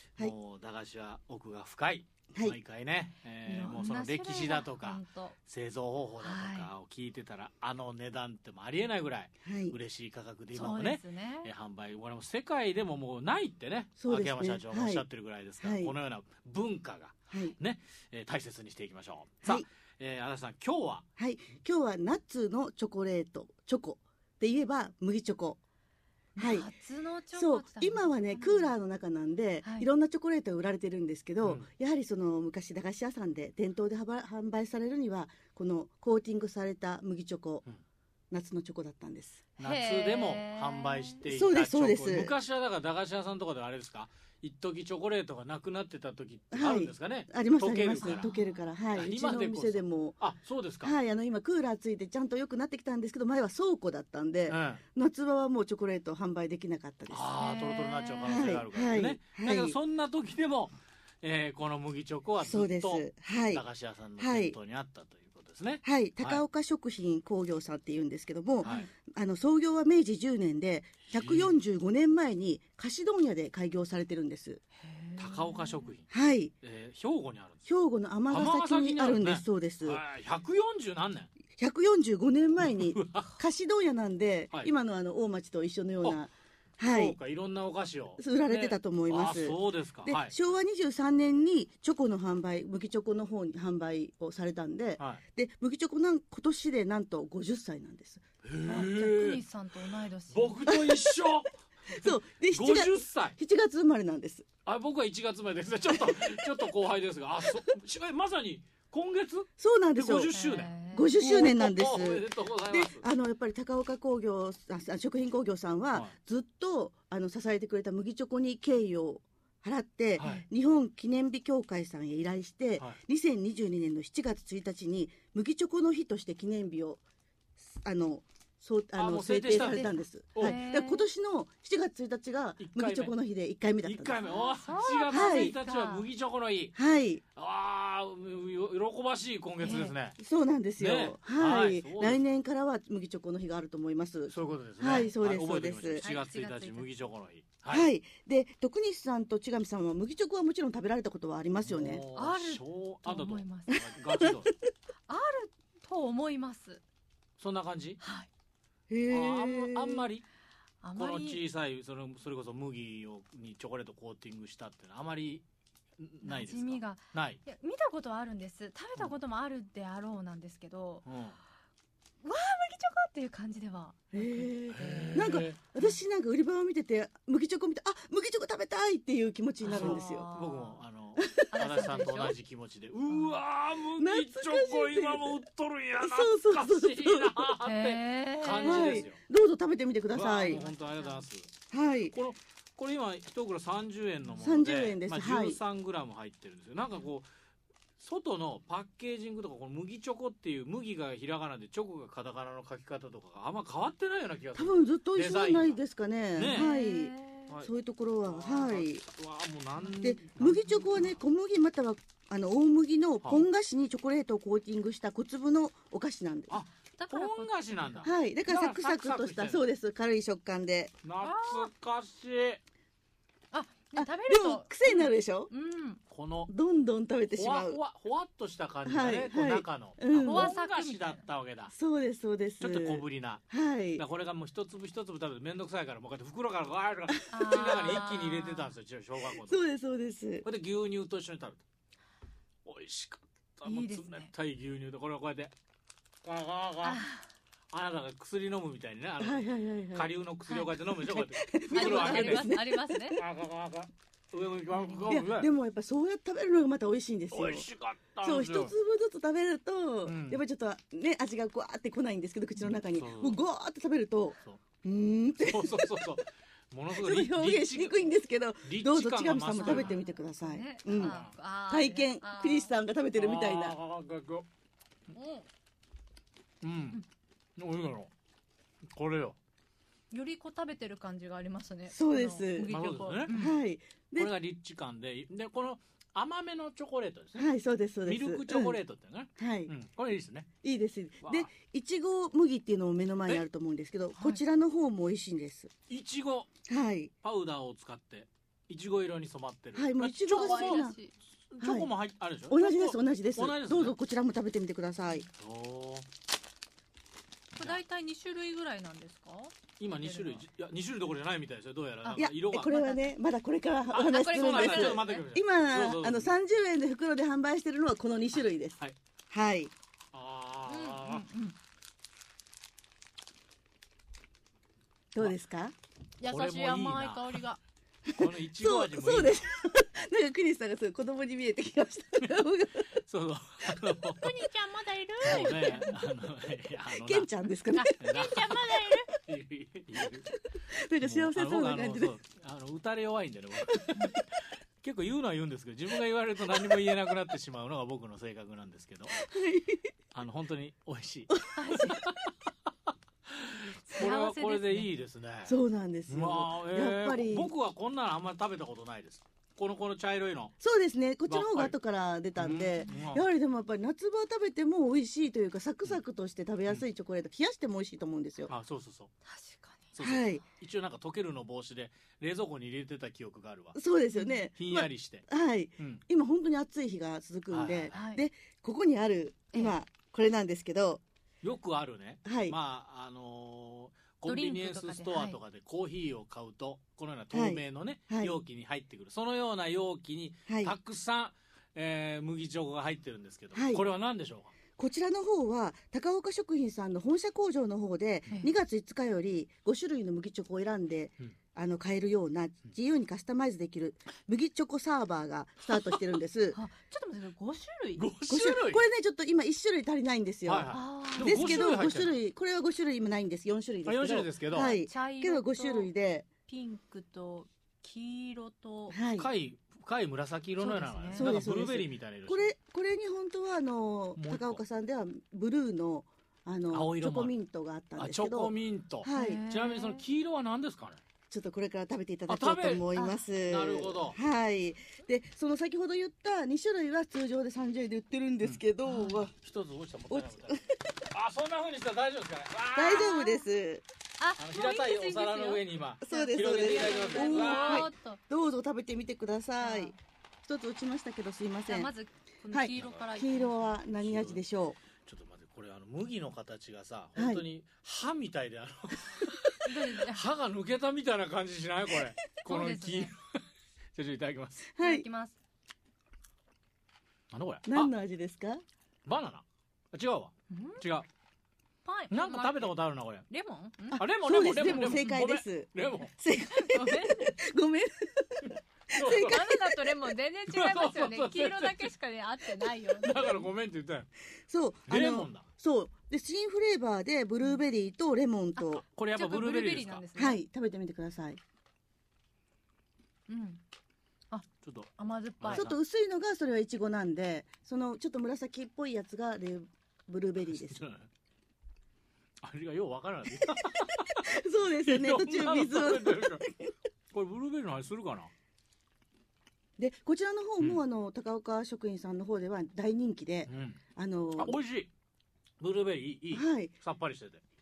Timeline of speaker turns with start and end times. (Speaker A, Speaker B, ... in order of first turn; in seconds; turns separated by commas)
Speaker A: 0.2-21.0, Speaker B: 3.5-5.4, Speaker B: 6.2-6.7, Speaker C: 9.4-9.8, Speaker B: 10.5-11.5, Speaker C: 14.0-15.1, Speaker C: 15.6-15.9, Speaker C: 17.3-17.6, Speaker C: 21.2-25.6, Speaker B: 26.4-28.7, Speaker C: 26.4-26.7, Speaker C: 27.3-37.6, Speaker B: 29.6-29.9, Speaker A: 31.4-31.7, Speaker C: 38.3-39.5, Speaker B: 39.6-41.2, Speaker A: 39.6-48.3, Speaker C: 41.3-42.4, Speaker C: 46.5-50.2, Speaker B: 48.0-48.6, Speaker A: 48.9-50.9, Speaker C: 50.8-57.3, Speaker A: 54.5-54.8, Speaker A: 57.1-66.5, Speaker B: 57.4-58.4, Speaker C: 58.3-59.8, Speaker C: 62.4-63.6, Speaker C: 64.2-64.6, Speaker C: 65.8-74.6, Speaker B: 68.6-68.9, Speaker A: 71.1-71.6, Speaker B: 74.8-75.9, Speaker A: 75.2-77.7, Speaker C: 76.1-76.5, Speaker C: 77.7-80.0, Speaker A: 78.3-81.3, Speaker C: 81.6-87.2, Speaker A: 82.6-83.4, Speaker A: 86.8-90.3, Speaker C: 88.2-98.2, Speaker A: 98.4-99.4, Speaker B: 98.7-100.5, Speaker A: 100.3-103.4, Speaker C: 100.7-101.2, Speaker C: 101.9-104.5, Speaker A: 104.7-113.0, Speaker C: 109.6-110.3, Speaker B: 110.3-111.2, Speaker C: 110.9-127.0, Speaker A: 120.2-120.4, Speaker B: 120.2-120.5, Speaker C: 127.6-134.2, Speaker A: 128.9-130.6, Speaker B: 129.5-131.1, Speaker A: 132.6-133.1, Speaker A: 133.8-136.8, Speaker B: 134.2-136.1, Speaker C: 135.1-135.6, Speaker C: 136.8-137.2, Speaker A: 137.3-140.2, Speaker B: 139.6-139.9, Speaker C: 140.2-146.1, Speaker A: 140.8-142.2, Speaker A: 144.3-147.9, Speaker B: 144.8-145.2, Speaker B: 146.0-146.9, Speaker C: 147.7-152.0, Speaker A: 151.6-154.5, Speaker B: 152.1-153.8, Speaker C: 154.1-154.5, Speaker B: 155.1-156.8, Speaker A: 157.4-158.0, Speaker B: 158.0-158.3, Speaker C: 158.9-160.1, Speaker A: 159.1-160.2, Speaker B: 160.8-161.4, Speaker A: 160.9-165.4, Speaker A: 166.0-167.4, Speaker B: 166.2-171.1, Speaker A: 171.1-171.4, Speaker B: 172.2-176.0, Speaker C: 174.1-180.3, Speaker A: 174.7-175.6, Speaker A: 179.6-189.2, Speaker B: 179.7-180.8, Speaker C: 181.2-181.5, Speaker B: 181.5-182.4, Speaker C: 184.0-185.4, Speaker C: 186.0-187.6, Speaker B: 187.6-189.0, Speaker C: 188.6-190.6, Speaker A: 190.1-191.5, Speaker B: 190.4-191.2, Speaker C: 191.7-192.2, Speaker A: 192.1-197.3, Speaker C: 194.4-195.6, Speaker A: 198.0-205.8, Speaker C: 204.6-209.1, Speaker A: 206.4-206.7, Speaker B: 206.5-207.5, Speaker A: 208.2-210.8, Speaker B: 209.8-210.1, Speaker C: 210.0-216.6, Speaker A: 216.5-219.7, Speaker B: 216.9-218.1, Speaker C: 218.0-220.9, Speaker A: 221.0-222.6, Speaker B: 221.2-221.7, Speaker B: 223.5-226.0, Speaker C: 223.9-225.5, Speaker A: 226.1-226.5, Speaker C: 226.5-227.8, Speaker A: 227.3-231.7, Speaker C: 228.9-230.5, Speaker B: 230.2-231.3, Speaker C: 231.7-234.0, Speaker A: 232.6-239.6, Speaker B: 237.3-238.7, Speaker C: 237.3-238.0, Speaker C: 239.3-240.5, Speaker A: 240.4-241.6, Speaker A: 242.7-245.5, Speaker B: 243.7-244.3, Speaker A: 246.2-247.0, Speaker B: 246.8-247.3, Speaker A: 247.7-252.5, Speaker C: 249.2-250.1, Speaker C: 250.9-253.1, Speaker B: 251.7-253.2, Speaker A: 253.1-255.5, Speaker B: 254.7-255.2, Speaker C: 255.1-257.7, Speaker A: 257.3-258.8, Speaker C: 258.2-266.1, Speaker A: 260.1-260.4, Speaker A: 262.6-263.4, Speaker A: 265.4-270.0, Speaker C: 267.0-271.2, Speaker B: 269.6-272.7, Speaker A: 270.9-271.3, Speaker C: 271.7-273.8, Speaker A: 273.1-274.5, Speaker B: 275.1-275.5, Speaker A: 276.6-277.0, Speaker A: 277.6-278.1, Speaker A: 278.9-279.4, Speaker B: 280.1-283.6, Speaker C: 281.9-282.8, Speaker A: 282.6-283.5, Speaker C: 283.3-284.3, Speaker A: 284.2-287.5, Speaker C: 287.4-288.8, Speaker A: 288.1-290.5, Speaker C: 289.4-289.7, Speaker C: 290.6-295.7, Speaker A: 291.2-291.5, Speaker B: 294.2-294.4, Speaker A: 295.9-296.5, Speaker C: 296.7-297.1, Speaker A: 297.2-304.0, Speaker C: 299.8-301.0, Speaker B: 300.3-301.1, Speaker C: 301.6-301.9, Speaker C: 302.5-305.3, Speaker A: 305.4-306.1, Speaker B: 307.5-310.4, Speaker A: 309.8-312.8, Speaker B: 312.0-313.1, Speaker C: 312.2-319.7, Speaker A: 313.9-316.3, Speaker B: 313.9-315.2, Speaker A: 320.1-321.2, Speaker B: 320.7-321.6, Speaker C: 325.1-325.8, Speaker B: 326.2-327.6, Speaker A: 326.2-327.4, Speaker C: 328.1-333.0, Speaker A: 328.2-329.6, Speaker A: 333.0-334.3, Speaker B: 334.2-336.0, Speaker A: 335.2-337.3, Speaker C: 336.9-339.1, Speaker B: 337.7-339.1, Speaker A: 338.0-340.3, Speaker C: 340.5-342.1, Speaker A: 341.0-344.2, Speaker A: 344.8-349.2, Speaker C: 349.2-349.9, Speaker A: 350.1-352.3, Speaker B: 351.6-352.0, Speaker A: 353.3-355.6, Speaker B: 353.8-354.9, Speaker C: 355.5-357.5, Speaker A: 356.1-360.5, Speaker C: 360.6-368.5, Speaker A: 361.3-361.8, Speaker A: 362.4-363.2, Speaker A: 368.5-369.1, Speaker B: 369.2-369.9, Speaker A: 369.9-373.8, Speaker C: 370.0-370.4, Speaker C: 373.8-381.0, Speaker B: 374.1-374.4, Speaker A: 374.6-375.3, Speaker A: 377.5-378.0, Speaker B: 377.9-378.2, Speaker A: 381.4-394.5, Speaker C: 382.2-382.6, Speaker B: 384.2-385.4, Speaker C: 387.3-388.4, Speaker C: 390.5-390.7, Speaker C: 393.6-393.9, Speaker C: 394.8-406.6, Speaker B: 406.5-408.1, Speaker A: 408.0-408.8, Speaker C: 408.3-416.3, Speaker A: 410.4-412.1, Speaker B: 410.7-411.6, Speaker A: 413.9-414.8, Speaker B: 414.6-415.9, Speaker B: 416.5-419.0, Speaker C: 418.9-419.3, Speaker A: 419.2-422.5, Speaker B: 420.6-421.3, Speaker C: 421.1-429.4, Speaker A: 424.2-424.6, Speaker A: 426.7-427.3, Speaker A: 428.0-431.0, Speaker B: 429.1-430.1, Speaker C: 431.3-439.3, Speaker A: 432.3-432.9, Speaker B: 432.9-433.2, Speaker A: 433.5-434.2, Speaker B: 438.9-439.3, Speaker A: 439.4-443.2, Speaker C: 440.1-440.9, Speaker C: 442.8-443.8, Speaker B: 442.9-443.4, Speaker B: 444.2-448.2, Speaker A: 444.4-447.9, Speaker C: 446.0-449.9, Speaker B: 449.6-449.9, Speaker C: 450.5-451.9, Speaker B: 451.7-453.7, Speaker C: 452.5-454.8, Speaker A: 452.8-453.1, Speaker A: 453.9-454.4, Speaker A: 455.0-463.4, Speaker C: 457.2-457.4, Speaker B: 459.6-460.3, Speaker B: 462.4-463.1, Speaker A: 463.9-464.7, Speaker C: 464.8-465.1, Speaker B: 464.8-465.4, Speaker A: 467.3-467.9, Speaker C: 467.7-468.6, Speaker A: 469.1-471.1, Speaker B: 470.5-470.8, Speaker B: 471.9-472.8, Speaker A: 472.1-473.2, Speaker B: 473.3-475.2, Speaker A: 473.9-476.1, Speaker C: 474.0-479.9, Speaker B: 476.5-477.4, Speaker A: 478.4-479.4, Speaker B: 479.1-483.5, Speaker A: 480.5-481.9, Speaker A: 483.0-484.1, Speaker C: 484.5-488.8, Speaker A: 484.9-485.5, Speaker B: 488.6-490.4, Speaker A: 488.9-490.1, Speaker C: 490.2-491.4, Speaker B: 493.3-493.6, Speaker B: 494.3-495.7, Speaker A: 494.6-495.8, Speaker C: 495.5-500.8, Speaker A: 500.4-501.1, Speaker A: 502.4-504.3, Speaker C: 504.2-506.7, Speaker A: 504.9-506.5, Speaker A: 507.1-508.3, Speaker C: 509.8-514.6, Speaker A: 513.5-513.8, Speaker A: 514.4-514.9, Speaker A: 515.6-517.4, Speaker C: 516.3-516.7